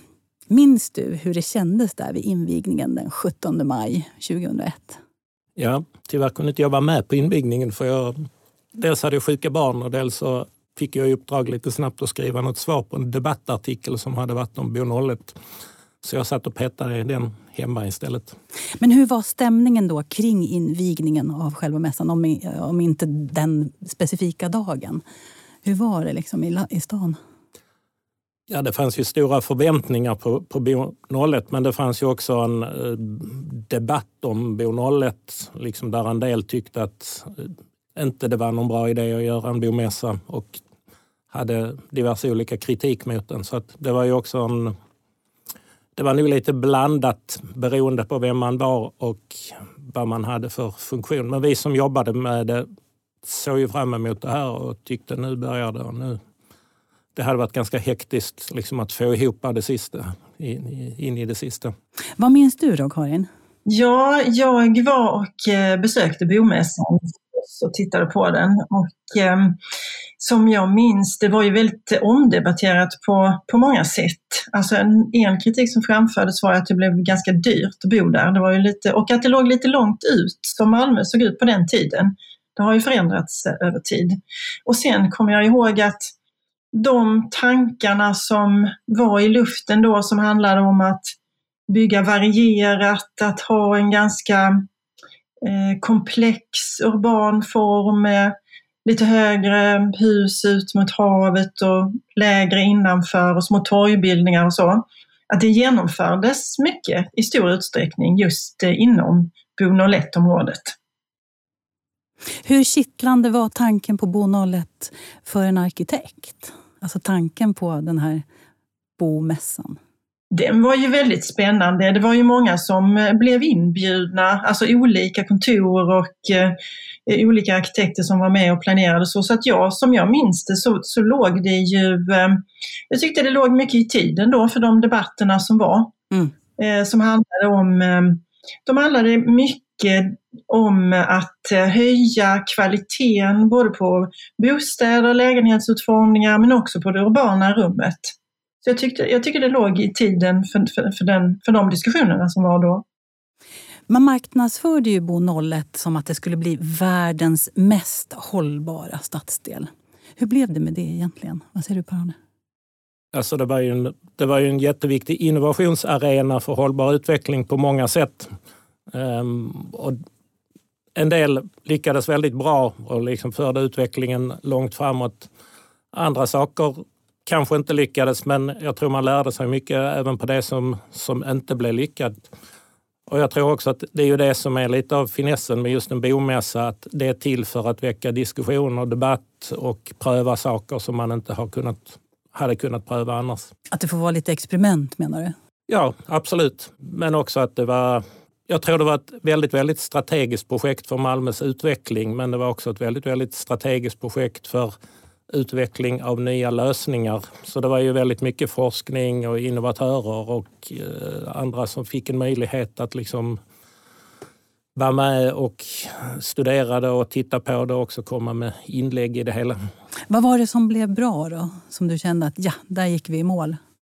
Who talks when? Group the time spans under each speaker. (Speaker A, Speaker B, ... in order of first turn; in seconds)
Speaker A: 0.5-5.0, 18.8-25.0, 25.6-27.2, 62.2-63.3, 112.4-118.2, 119.0-119.8, 153.9-162.2, 193.7-195.3, 220.1-223.6
Speaker B: 5.6-15.4, 16.0-18.4, 28.5-40.6, 41.3-44.8, 46.0-52.7, 53.2-56.2, 57.1-61.7, 163.1-168.3, 168.9-170.0, 171.0-175.3, 175.9-182.3, 183.1-193.5, 195.7-204.7, 205.3-213.4, 214.8-219.6
Speaker C: 63.7-69.6, 70.2-86.1, 86.7-91.2, 91.7-94.6, 95.4-110.8, 120.3-135.9, 136.6-152.8